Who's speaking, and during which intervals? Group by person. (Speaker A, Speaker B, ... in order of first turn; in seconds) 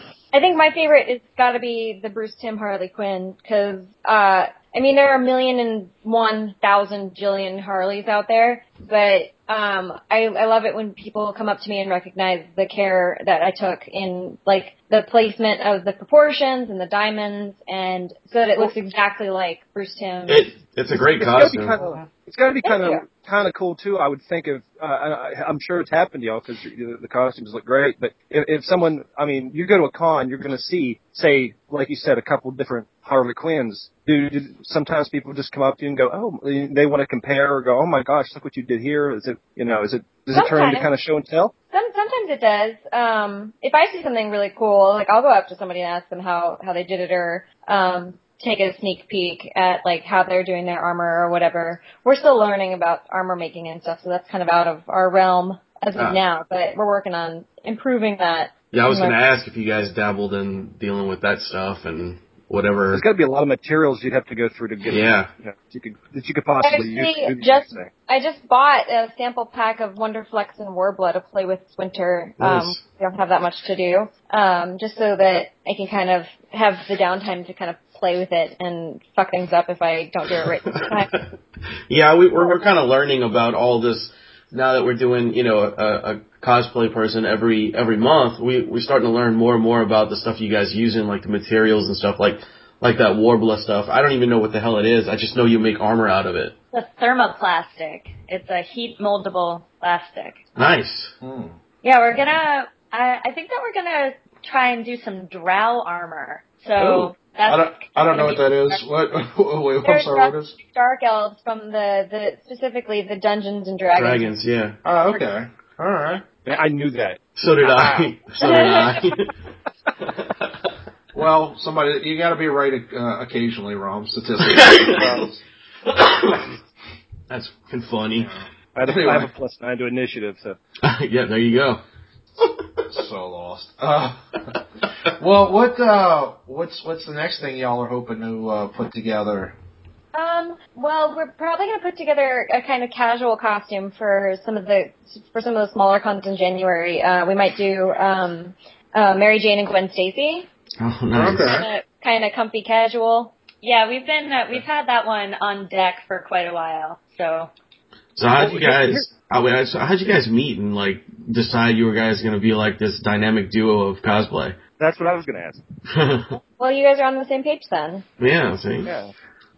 Speaker A: 0.3-20.5, 22.6-23.0, 40.3-40.9, 41.7-59.1, 66.6-81.1, 109.8-114.3, 118.4-118.8, 140.1-150.5, 151.4-153.3, 166.6-168.0
Speaker B: 20.3-21.8, 55.9-56.2, 58.7-63.0, 64.9-65.3, 72.4-72.8, 80.7-81.3, 81.9-96.5, 100.5-101.1, 113.9-114.8, 117.3-119.3, 120.0-120.7, 124.4-125.2, 125.8-126.5, 127.3-128.3, 130.8-131.8, 132.4-132.7, 150.8-151.6, 158.2-164.6, 165.9-166.4, 168.2-168.9
Speaker C: 21.0-41.5, 62.9-67.9, 116.4-119.0, 124.9-125.2, 128.7-130.6, 158.4-159.1, 164.8-165.6, 168.8-169.1
Speaker D: 21.7-22.1, 101.2-101.6, 107.5-110.5, 114.8-116.2, 121.1-125.4, 128.1-129.3, 132.9-134.2, 135.2-139.6, 151.1-151.7
Speaker E: 96.7-100.4, 101.8-108.8, 153.6-157.5